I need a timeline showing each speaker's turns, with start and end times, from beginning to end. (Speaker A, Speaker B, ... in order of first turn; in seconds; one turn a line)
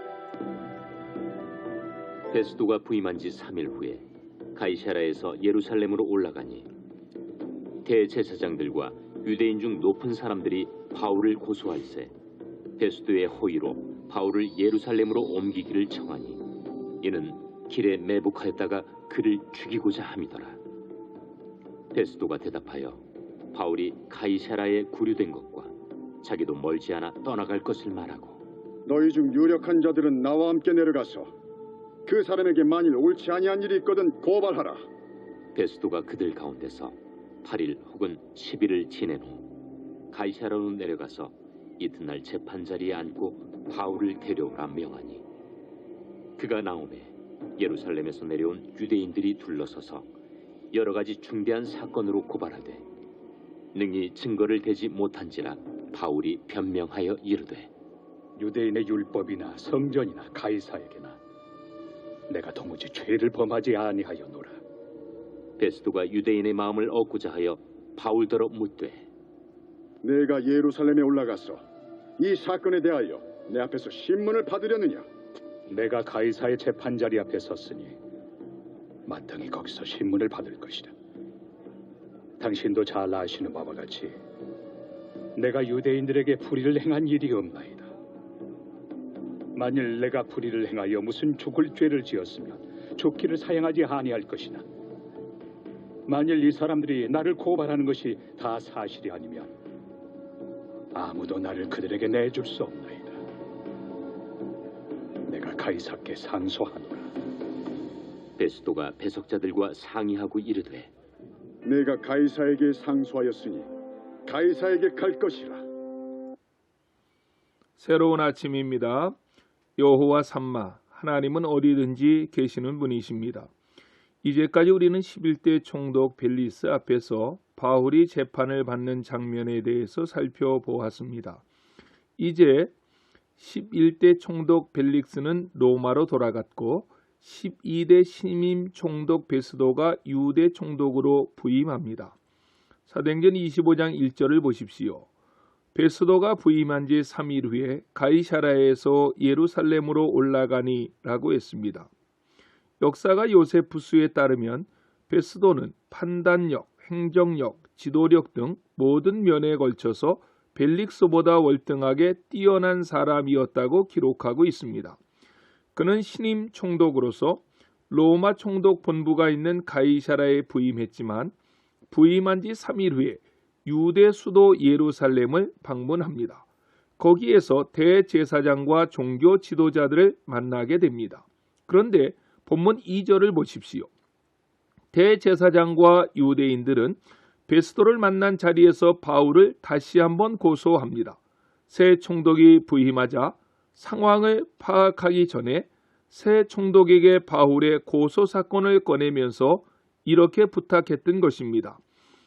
Speaker A: 2.3-6.7
Speaker A: 7.8-12.1
Speaker A: 12.8-20.6
Speaker A: 21.9-28.4
Speaker B: 28.9-31.3
Speaker B: 32.0-34.8
Speaker A: 35.5-39.5
Speaker A: 40.1-45.2
Speaker A: 46.4-50.1
Speaker A: 50.7-52.9
Speaker A: 53.7-57.7
Speaker C: 58.4-61.2
Speaker C: 62.3-64.6
Speaker A: 65.6-69.1
Speaker B: 70.0-71.6
Speaker B: 72.2-75.0
Speaker C: 75.7-78.0
Speaker C: 79.1-80.9
Speaker C: 82.4-84.2
Speaker C: 85.3-87.9
Speaker C: 89.5-94.7
Speaker C: 96.1-99.5
Speaker C: 100.9-103.2
Speaker C: 105.2-107.1
Speaker A: 108.4-110.9
Speaker B: 111.6-113.7
Speaker B: 114.2-115.6
Speaker D: 117.8-119.2
Speaker D: 119.8-123.5
Speaker D: 124.2-131.4
Speaker D: 132.2-132.7
Speaker D: 133.4-142.2
Speaker D: 142.9-145.1
Speaker D: 145.7-151.9
Speaker D: 152.8-165.0
Speaker D: 165.7-171.3
Speaker D: 171.9-176.4
Speaker D: 177.0-183.9
Speaker D: 184.9-201.8